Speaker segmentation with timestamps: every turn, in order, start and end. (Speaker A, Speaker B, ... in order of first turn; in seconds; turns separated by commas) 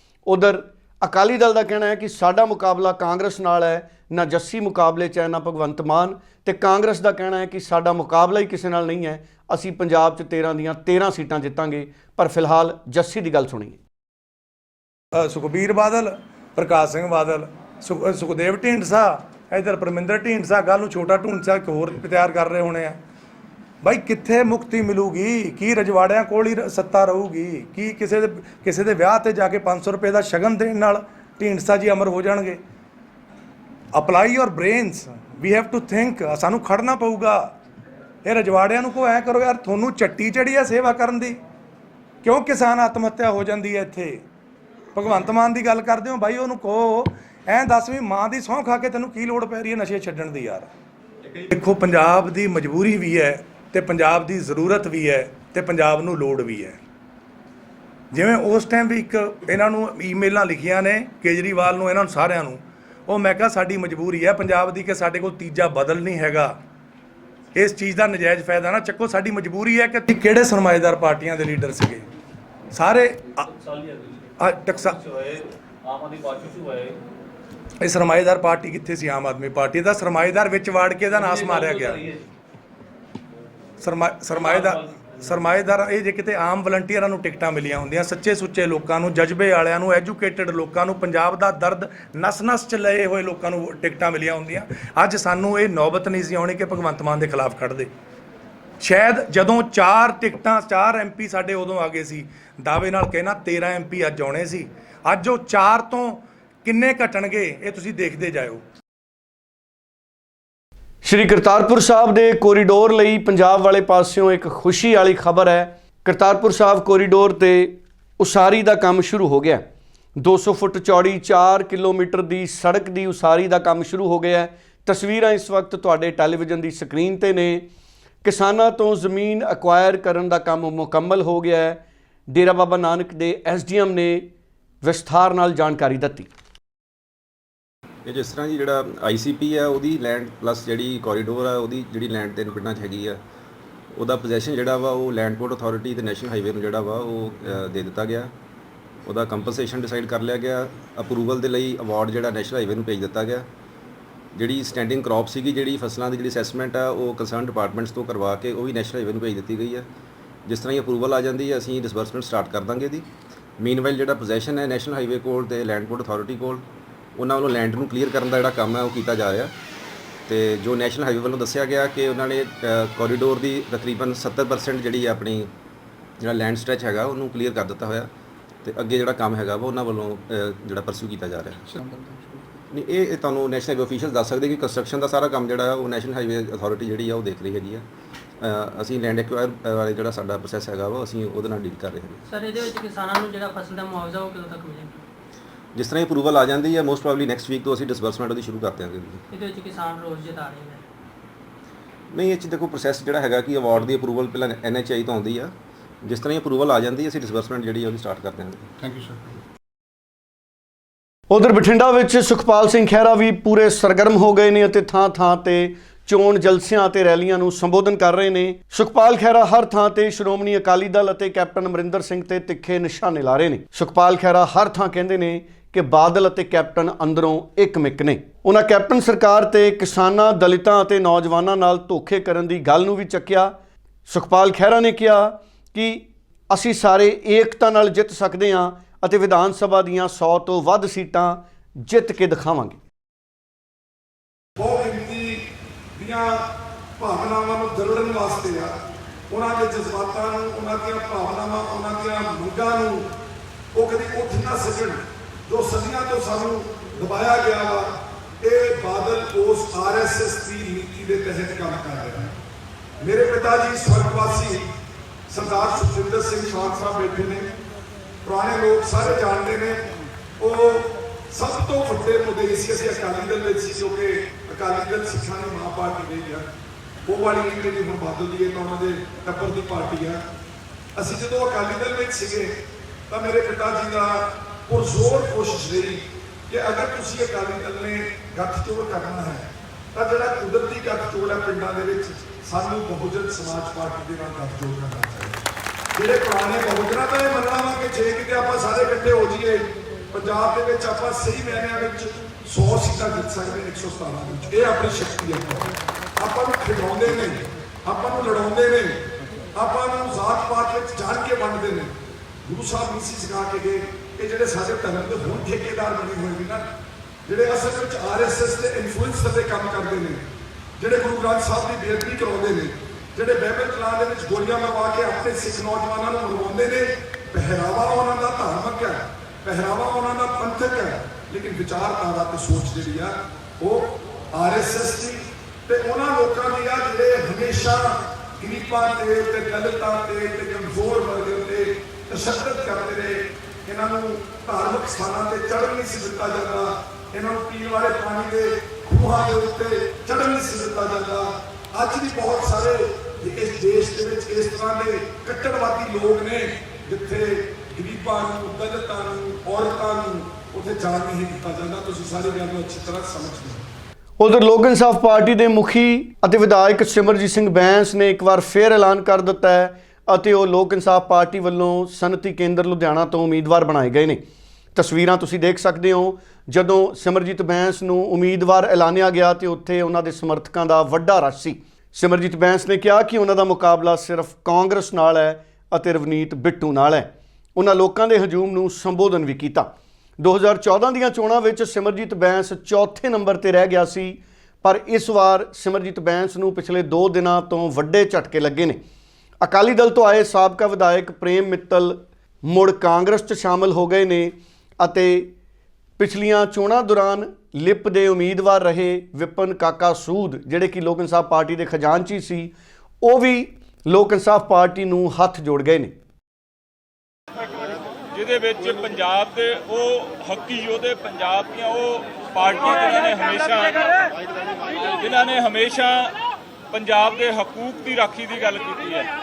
Speaker A: 0.3-13.8, Speaker B: 15.2-23.0, Speaker B: 23.8-32.6, Speaker B: 33.9-37.5, Speaker B: 38.2-41.4, Speaker B: 42.2-44.2, Speaker B: 45.0-50.7, Speaker B: 51.5-56.8, Speaker B: 58.1-66.6, Speaker B: 67.5-72.0, Speaker B: 72.7-73.4, Speaker C: 73.4-77.0, Speaker B: 74.4-75.0, Speaker B: 77.8-82.1, Speaker C: 81.1-82.2, Speaker B: 83.8-97.9, Speaker C: 84.3-85.2, Speaker B: 98.8-108.6, Speaker A: 111.0-119.7, Speaker A: 120.2-127.7, Speaker A: 128.2-134.3, Speaker A: 134.8-136.3, Speaker D: 138.1-143.2, Speaker D: 143.9-148.3, Speaker D: 149.1-153.5, Speaker D: 154.3-159.9, Speaker D: 160.5-163.1, Speaker D: 163.6-166.7, Speaker D: 167.2-169.5, Speaker D: 170.3-175.5, Speaker D: 176.2-178.1, Speaker D: 178.6-181.6, Speaker D: 182.7-187.9, Speaker D: 188.4-192.2, Speaker C: 192.3-194.9, Speaker D: 195.8-199.2, Speaker C: 199.3-200.8, Speaker D: 202.1-208.7, Speaker A: 211.3-233.6, Speaker A: 234.1-242.8, Speaker E: 244.6-245.4, Speaker E: 246.0-246.5, Speaker E: 247.0-248.8, Speaker E: 249.3-253.1, Speaker E: 253.8-262.4, Speaker E: 263.0-264.7, Speaker E: 265.3-267.5, Speaker E: 268.2-269.9, Speaker E: 270.4-276.5, Speaker E: 277.1-280.2, Speaker E: 281.0-282.6, Speaker E: 283.1-295.4, Speaker E: 295.9-309.0, Speaker E: 309.6-316.7, Speaker E: 317.3-320.2, Speaker E: 320.8-363.7, Speaker A: 364.2-374.2, Speaker A: 374.8-398.8, Speaker A: 399.4-405.3, Speaker A: 406.0-415.9, Speaker F: 418.1-423.9, Speaker F: 425.0-426.2, Speaker F: 426.7-429.1